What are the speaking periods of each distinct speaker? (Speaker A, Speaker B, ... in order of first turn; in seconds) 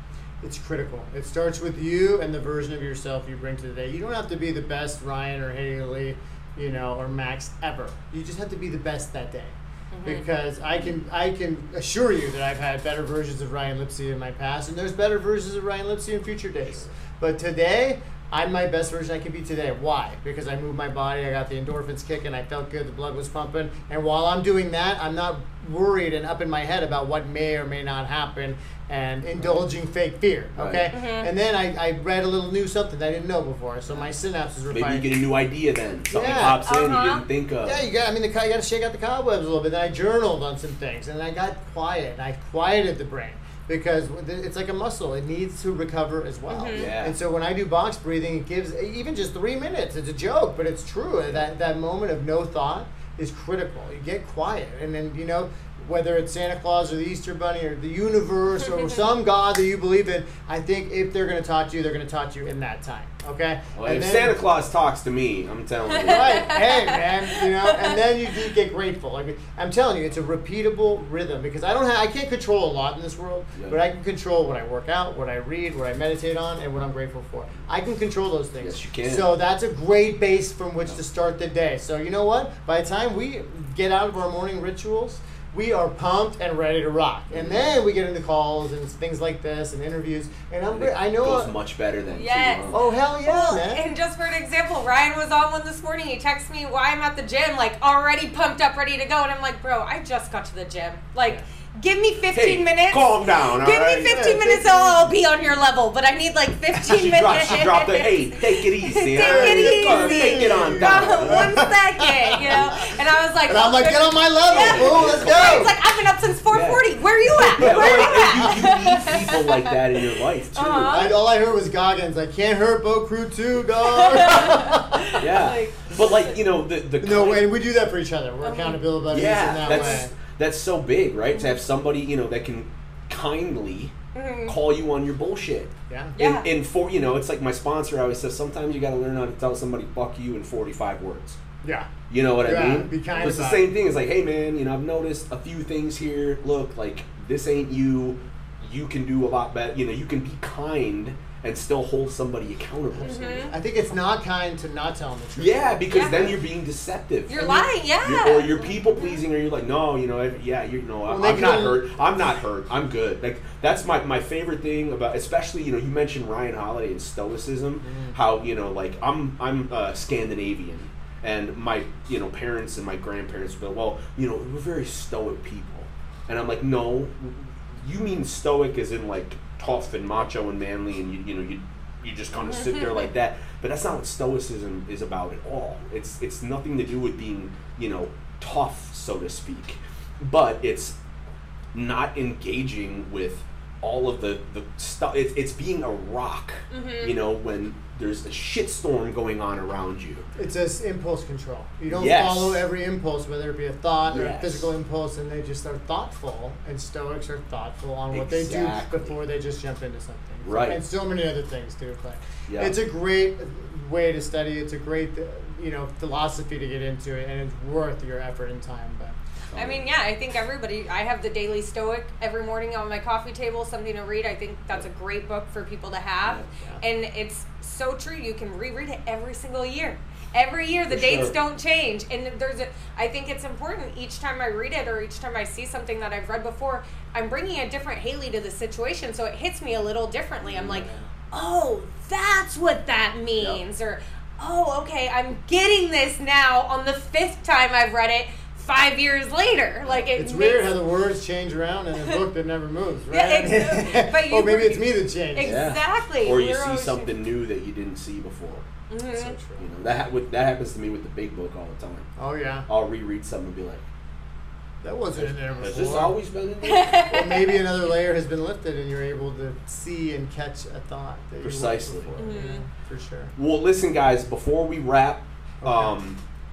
Speaker A: 0.4-35.2, 36.1-36.7, 37.6-64.4, 66.0-91.5, 92.7-93.8, 103.9-105.1, 109.2-112.8, 113.5-115.7, 117.6-118.6, 120.9-125.2, 127.0-130.1, 135.9-136.2, 141.6-143.7, 153.0-156.4, 161.1-161.8, 167.8-168.2, 200.3-219.1, 240.5-241.1, 250.2-255.6, 259.1-259.7, 262.2-262.7, 264.8-266.2, 267.1-273.3, 275.6-275.9
Speaker B: 9.9-10.2, 30.9-31.3, 36.3-37.2, 46.5-46.9, 65.9-68.0, 92.1-121.2, 123.8-126.4, 128.4-128.8, 129.6-130.0, 134.1-134.5, 136.2-136.5, 153.0-153.5, 155.9-156.3, 157.3-159.2, 182.5-183.1, 196.7-197.1, 219.5-250.8, 253.1-257.1, 258.9-259.4, 266.6-267.6, 272.2-272.6
Speaker C: 30.6-30.9, 34.7-37.9, 46.7-47.1, 63.8-66.5, 78.6-79.3, 87.3-87.7, 90.7-92.8, 102.3-104.1, 106.7-111.6, 112.5-112.8, 114.5-115.7, 116.5-121.2, 125.2-127.5, 129.1-133.9, 134.5-141.4, 142.1-153.5, 155.3-190.9, 191.7-200.3, 201.9-202.6, 204.0-204.7, 208.1-209.1, 210.4-210.8, 212.5-212.7, 219.5-219.8, 230.9-231.3, 255.4-258.6, 259.5-262.1, 262.7-263.8, 265.1-267.2, 271.4-272.1, 273.4-276.2